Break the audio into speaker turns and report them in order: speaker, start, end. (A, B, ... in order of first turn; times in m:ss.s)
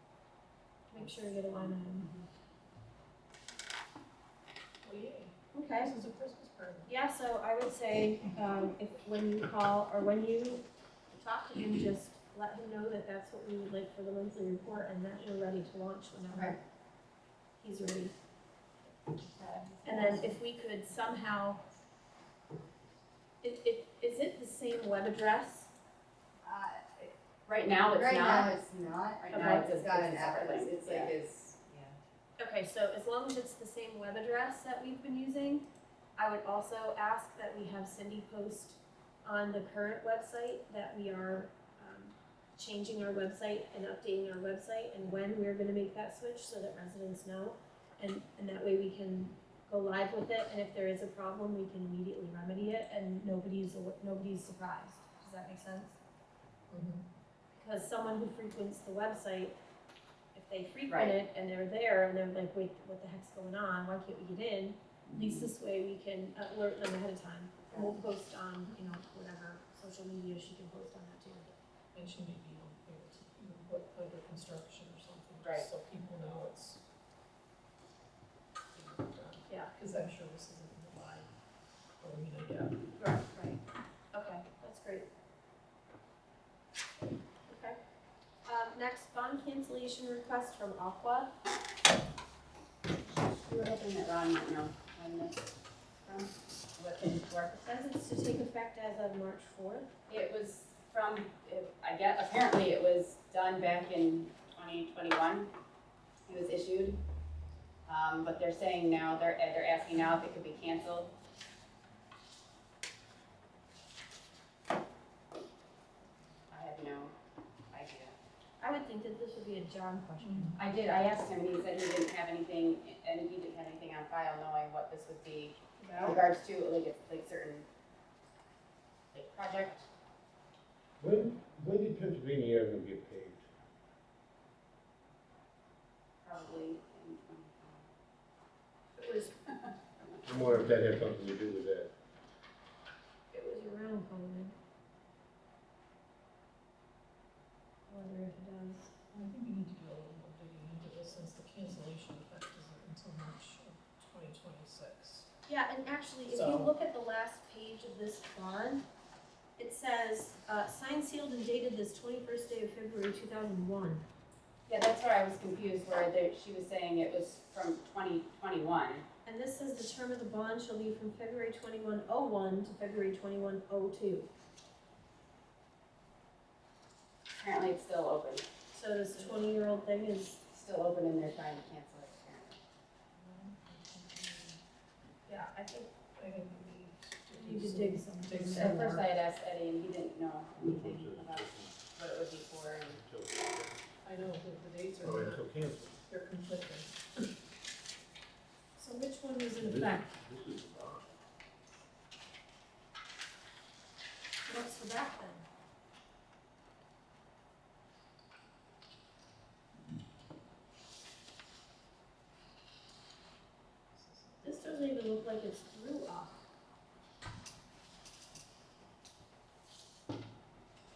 0:00.9-0:02.1 A
0:04.8-0:05.3 B
0:05.5-0:05.9 A
0:05.8-0:06.9 B
0:06.9-0:16.6 A
0:17.6-0:18.1 A
0:19.3-0:20.2 C
0:19.8-0:21.6 A
0:23.4-0:25.7 A
0:26.4-0:27.1 C
0:27.4-0:28.6 D
0:27.8-0:32.0 C
0:29.2-0:31.2 D
0:29.3-0:29.6 A
0:32.4-0:35.6 A
0:36.2-0:56.0 A
0:56.7-0:57.0 B
0:57.5-0:59.6 A
1:00.3-1:11.5 A
1:00.9-1:01.2 D
1:05.1-1:05.5 D
1:07.7-1:07.9 D
1:11.9-1:16.8 B
1:15.4-1:15.7 D
1:18.7-1:21.3 B
1:22.0-1:22.8 B
1:23.0-1:23.6 A
1:23.0-1:23.5 D
1:24.1-1:25.1 A
1:27.5-1:27.8 A
1:28.4-1:31.3 A
1:33.0-1:35.4 D
1:36.0-1:37.5 D
1:37.5-1:39.9 A
1:40.1-1:45.5 D
1:46.3-1:47.0 D
1:47.9-1:51.1 D
1:56.5-1:57.1 D
1:57.7-1:58.1 D
1:58.6-2:00.6 A
2:00.6-2:07.6 D
2:05.8-2:06.2 A
2:09.1-2:09.9 D
2:11.0-2:13.4 E
2:16.2-2:17.8 D
2:19.0-2:19.3 A
2:19.1-2:20.1 D
2:20.2-2:21.9 E
2:23.3-2:24.5 A
2:27.9-2:28.9 A
2:29.1-2:35.3 B
2:35.5-2:38.8 A
2:36.3-2:36.7 B
2:39.6-2:44.0 A
2:44.7-2:49.0 D
2:49.2-2:54.3 A
2:57.3-2:58.4 D
2:58.7-3:00.4 A
3:00.5-3:02.6 D
3:03.4-3:04.5 B
3:05.3-3:05.8 A
3:06.2-3:08.7 B
3:07.3-3:09.0 A
3:08.5-3:13.0 D
3:10.6-3:11.8 E
3:12.9-3:13.9 E
3:14.2-3:15.4 B
3:15.0-3:16.0 E
3:16.1-3:16.9 B
3:18.8-3:20.1 A
3:19.6-3:21.1 E
3:24.4-3:25.4 A
3:33.9-3:34.8 B
3:34.4-3:36.4 A